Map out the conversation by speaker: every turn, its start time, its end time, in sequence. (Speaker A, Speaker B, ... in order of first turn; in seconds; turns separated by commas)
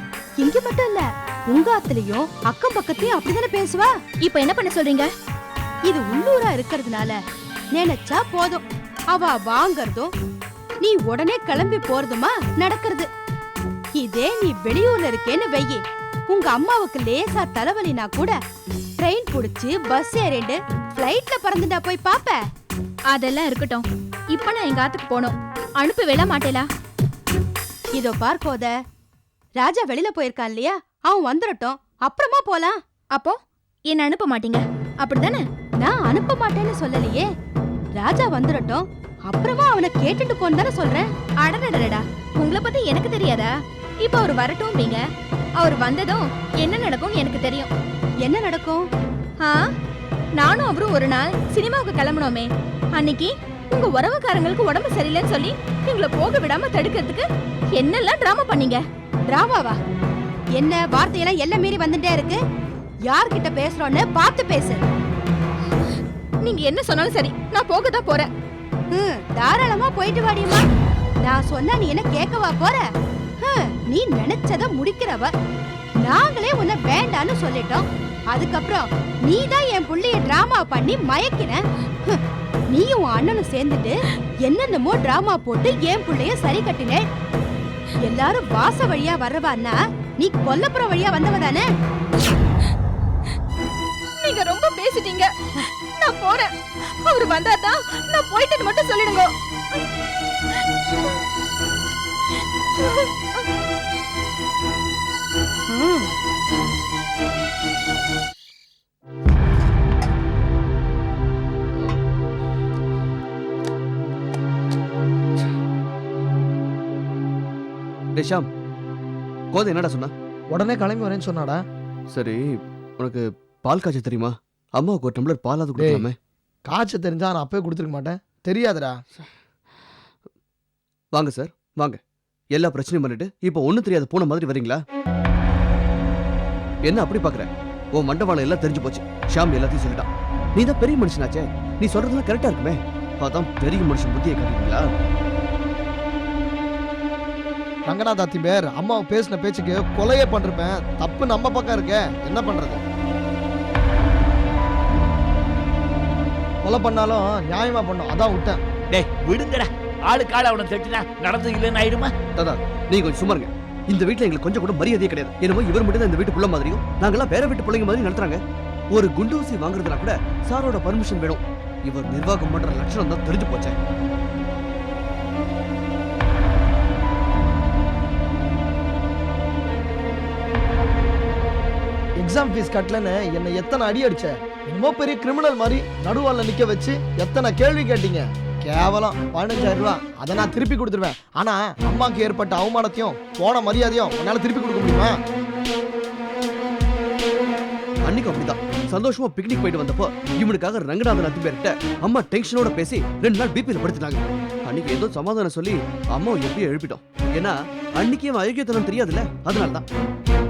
Speaker A: 0.4-3.9, Speaker B: 4.2-5.1, Speaker A: 5.9-7.2, Speaker A: 7.8-8.6, Speaker A: 9.1-10.1, Speaker A: 10.8-13.1, Speaker A: 14.0-18.4, Speaker A: 19.0-22.4, Speaker B: 23.1-26.7, Speaker A: 28.0-28.7, Speaker A: 29.6-32.8, Speaker B: 33.9-35.4, Speaker A: 35.8-37.2, Speaker A: 38.0-41.0, Speaker B: 41.5-43.5, Speaker B: 44.0-45.0, Speaker B: 45.6-47.7, Speaker A: 48.2-48.8, Speaker B: 50.4-57.2, Speaker B: 57.8-58.8, Speaker A: 59.3-59.8, Speaker A: 60.6-62.4, Speaker A: 63.1-64.8, Speaker B: 66.4-68.3, Speaker A: 68.9-70.7, Speaker A: 71.2-72.8, Speaker A: 73.4-75.3, Speaker A: 76.0-81.6, Speaker A: 82.7-83.9, Speaker A: 84.5-87.0, Speaker A: 88.0-91.6, Speaker B: 94.2-96.5, Speaker B: 97.0-99.3, Speaker B: 102.8-103.1, Speaker A: 105.7-106.1, Speaker C: 118.1-118.5, Speaker C: 119.5-120.1, Speaker D: 120.5-121.6, Speaker C: 122.1-122.5, Speaker C: 123.0-126.1, Speaker D: 125.8-126.1, Speaker D: 126.7-128.9, Speaker C: 131.1-132.0, Speaker C: 132.6-134.8, Speaker C: 136.9-144.8, Speaker D: 147.9-152.8, Speaker D: 156.6-158.6, Speaker E: 158.9-162.1, Speaker C: 162.4-168.4, Speaker C: 168.9-173.8, Speaker D: 182.2-195.1, Speaker C: 198.1-209.8